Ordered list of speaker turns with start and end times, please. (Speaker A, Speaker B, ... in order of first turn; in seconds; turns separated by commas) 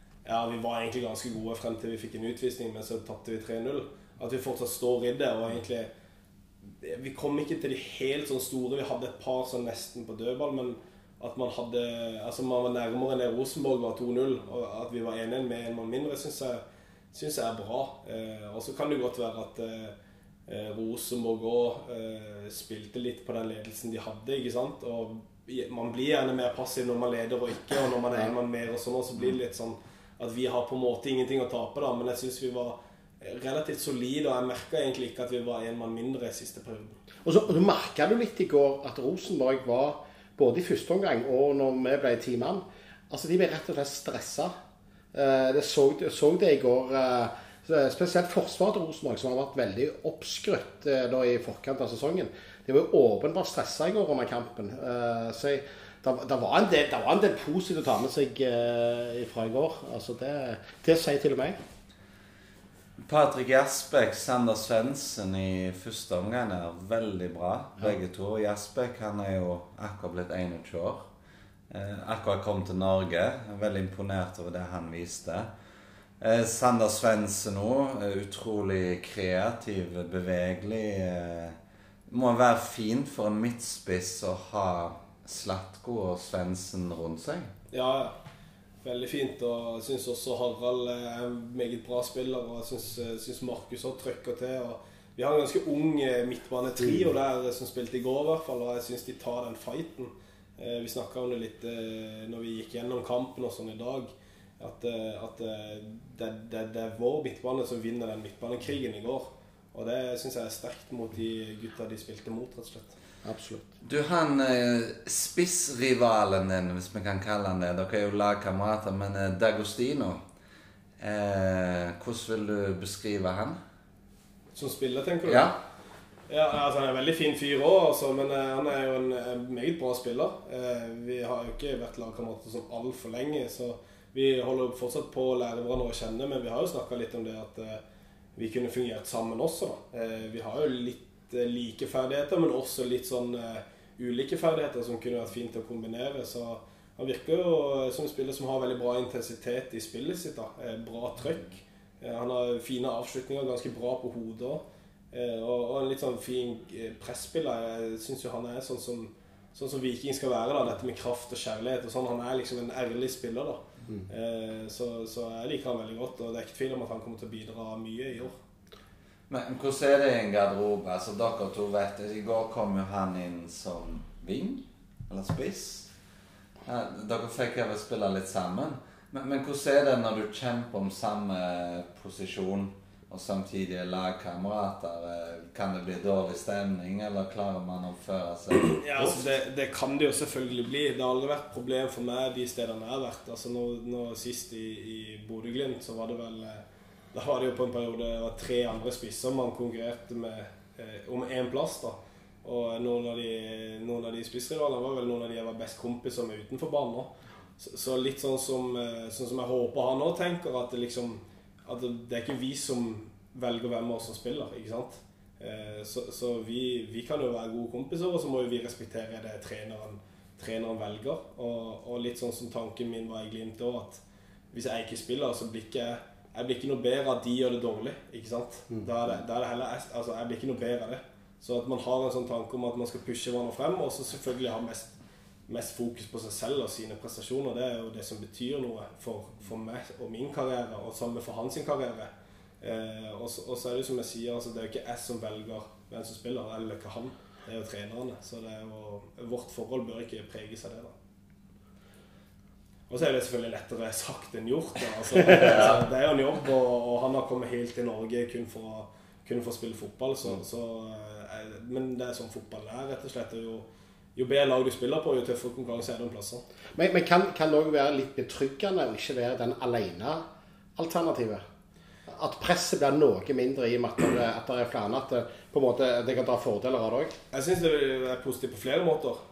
Speaker A: 0.2-5.9, Speaker A: 6.8-16.6, Speaker A: 17.1-19.9, Speaker A: 20.5-37.0, Speaker B: 37.2-44.5, Speaker B: 45.1-61.5, Speaker C: 63.0-71.0, Speaker C: 71.7-75.5, Speaker C: 76.2-81.5, Speaker C: 82.1-87.5, Speaker A: 87.7-88.1, Speaker A: 88.8-113.0, Speaker B: 113.2-113.7, Speaker C: 113.8-120.2, Speaker C: 121.0-123.6, Speaker A: 124.5-125.5, Speaker C: 125.2-125.5, Speaker A: 126.3-137.8, Speaker A: 138.3-168.3, Speaker C: 169.3-175.9, Speaker C: 176.6-189.3, Speaker A: 188.8-196.6, Speaker A: 197.1-224.0, Speaker A: 224.5-234.9, Speaker A: 235.5-242.1, Speaker A: 242.6-250.9, Speaker A: 252.9-266.4, Speaker B: 266.7-270.2, Speaker B: 270.8-271.4, Speaker B: 272.1-277.1, Speaker A: 277.3-279.2